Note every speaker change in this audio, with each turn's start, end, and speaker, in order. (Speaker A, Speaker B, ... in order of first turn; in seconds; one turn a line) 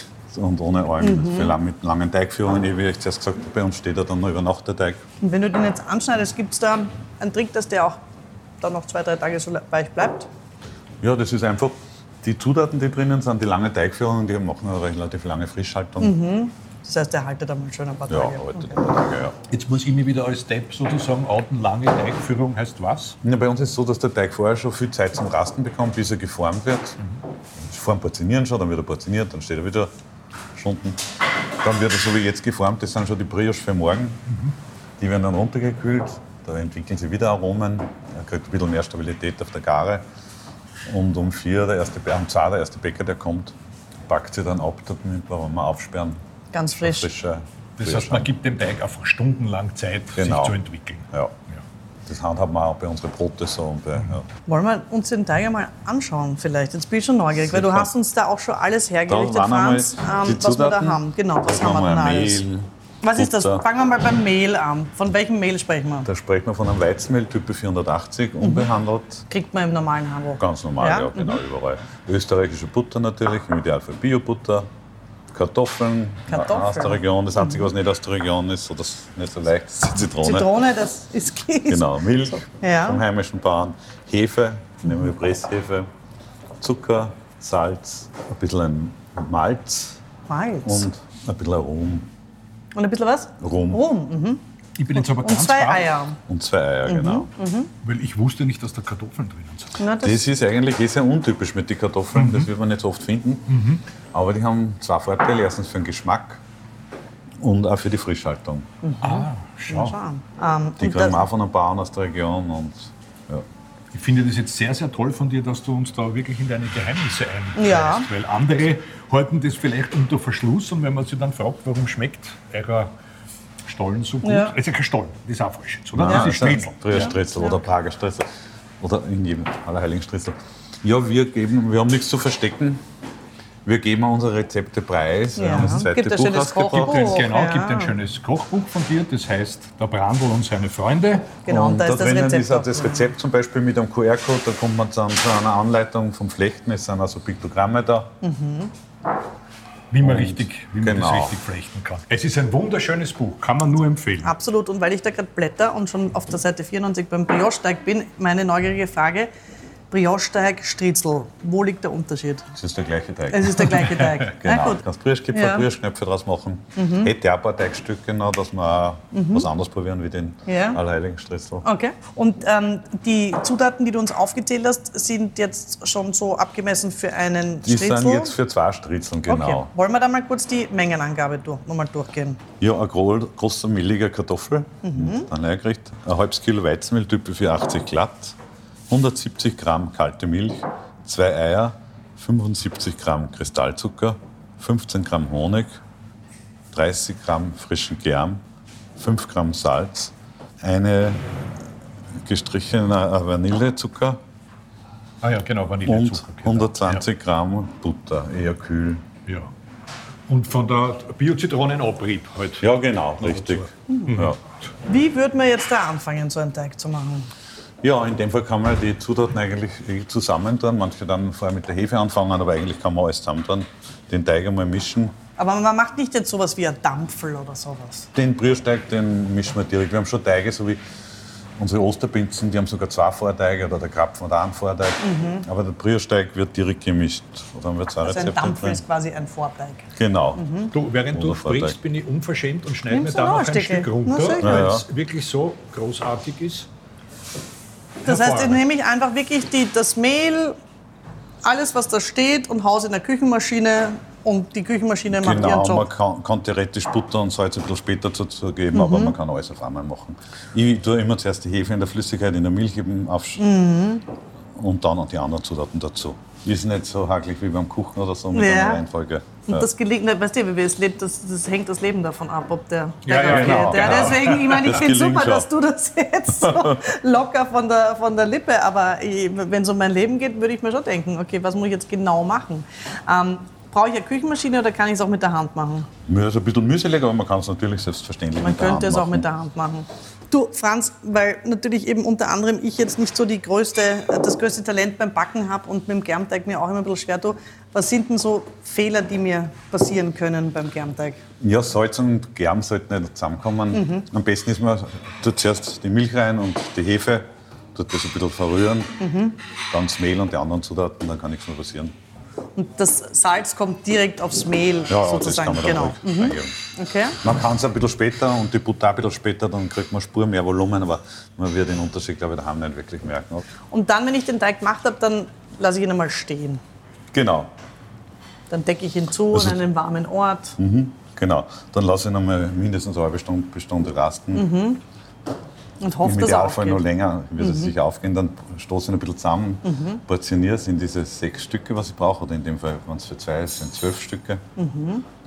Speaker A: 0.3-5.0
Speaker B: 1.0-1.5
Speaker B: 5.2-8.0
Speaker B: 8.6-10.3
Speaker A: 11.0-16.2
Speaker B: 16.0-18.7
Speaker A: 18.1-19.3
Speaker C: 19.5-23.2
Speaker A: 23.2-27.0
Speaker A: 27.6-29.9
Speaker A: 30.5-31.0
Speaker A: 31.6-34.2
Speaker C: 34.3-34.5
Speaker A: 35.0-40.0
Speaker A: 40.8-43.5
Speaker A: 44.1-46.2
Speaker B: 46.5-47.1
Speaker A: 46.7-48.3
Speaker C: 47.8-51.6
Speaker A: 50.1-50.6
Speaker A: 52.0-54.3
Speaker B: 54.5-62.4
Speaker A: 57.4-57.9
Speaker A: 59.1-63.6
Speaker B: 63.0-66.1
Speaker A: 66.0-69.2
Speaker B: 68.4-68.7
Speaker B: 69.3-71.4
Speaker A: 70.4-74.7
Speaker A: 75.3-80.6
Speaker B: 76.3-77.6
Speaker B: 80.1-83.0
Speaker A: 81.7-85.9
Speaker A: 86.6-90.0
Speaker B: 90.3-90.8
Speaker A: 90.6-92.1
Speaker B: 92.7-94.4
Speaker A: 93.4-93.8
Speaker C: 94.8-95.9
Speaker B: 94.9-96.2
Speaker A: 96.3-97.3
Speaker B: 96.8-97.7
Speaker C: 97.8-99.8
Speaker B: 99.8-100.2
Speaker A: 100.0-103.6
Speaker C: 102.1-102.5
Speaker C: 103.5-103.8
Speaker A: 104.1-106.4
Speaker A: 107.4-108.7
Speaker B: 108.8-111.2
Speaker C: 109.0-110.0
Speaker A: 110.8-113.5
Speaker C: 113.9-122.9
Speaker B: 117.5-118.1
Speaker C: 123.7-127.1
Speaker B: 124.2-124.5
Speaker A: 125.9-128.3
Speaker B: 126.1-126.4
Speaker B: 126.9-127.6
Speaker A: 128.8-132.8
Speaker A: 133.6-137.2
Speaker B: 135.4-137.9
Speaker C: 136.6-141.4
Speaker B: 141.4-143.0
Speaker A: 141.5-148.1
Speaker B: 148.2-148.7
Speaker C: 149.9-154.3
Speaker A: 150.0-151.4
Speaker B: 154.2-159.3
Speaker B: 159.9-162.5
Speaker A: 162.6-171.7
Speaker B: 163.3-164.8
Speaker B: 165.3-165.7
Speaker B: 166.8-167.1
Speaker B: 169.1-169.4
Speaker B: 170.5-170.8
Speaker B: 171.6-178.3
Speaker A: 177.6-179.7
Speaker B: 179.3-182.4
Speaker A: 182.6-188.4
Speaker B: 184.8-185.3
Speaker A: 188.9-195.8
Speaker A: 196.7-198.4
Speaker A: 199.0-201.3
Speaker A: 202.2-204.2
Speaker C: 205.2-207.0
Speaker A: 205.8-209.0
Speaker C: 210.3-212.7
Speaker A: 212.6-214.4
Speaker C: 213.2-214.5
Speaker B: 214.8-217.3
Speaker A: 217.8-225.1
Speaker B: 225.4-228.1
Speaker A: 228.1-230.8
Speaker A: 231.6-238.8
Speaker B: 235.0-235.4
Speaker B: 238.0-240.7
Speaker A: 239.9-241.8
Speaker C: 240.7-246.7
Speaker B: 242.9-244.7
Speaker A: 244.4-244.8
Speaker B: 248.0-250.6
Speaker C: 248.0-248.6
Speaker B: 251.4-255.9
Speaker A: 255.1-263.4
Speaker B: 258.7-259.1
Speaker B: 263.4-264.0
Speaker A: 264.5-269.7
Speaker B: 268.3-268.8
Speaker B: 269.5-285.9
Speaker C: 273.0-274.7
Speaker A: 273.2-275.5
Speaker A: 276.4-276.9
Speaker A: 286.1-289.3
Speaker B: 288.4-301.2
Speaker A: 301.4-309.0
Speaker B: 303.7-304.1
Speaker B: 309.0-309.4
Speaker A: 309.7-311.9
Speaker B: 312.6-317.2
Speaker A: 314.9-316.5
Speaker A: 317.2-323.4
Speaker B: 323.7-326.6
Speaker A: 327.1-327.5
Speaker B: 328.5-330.6
Speaker A: 329.3-329.6
Speaker A: 330.6-334.5
Speaker B: 334.3-334.8
Speaker B: 335.8-336.8
Speaker A: 336.0-344.4
Speaker B: 337.4-337.7
Speaker B: 339.6-340.0
Speaker B: 344.6-345.0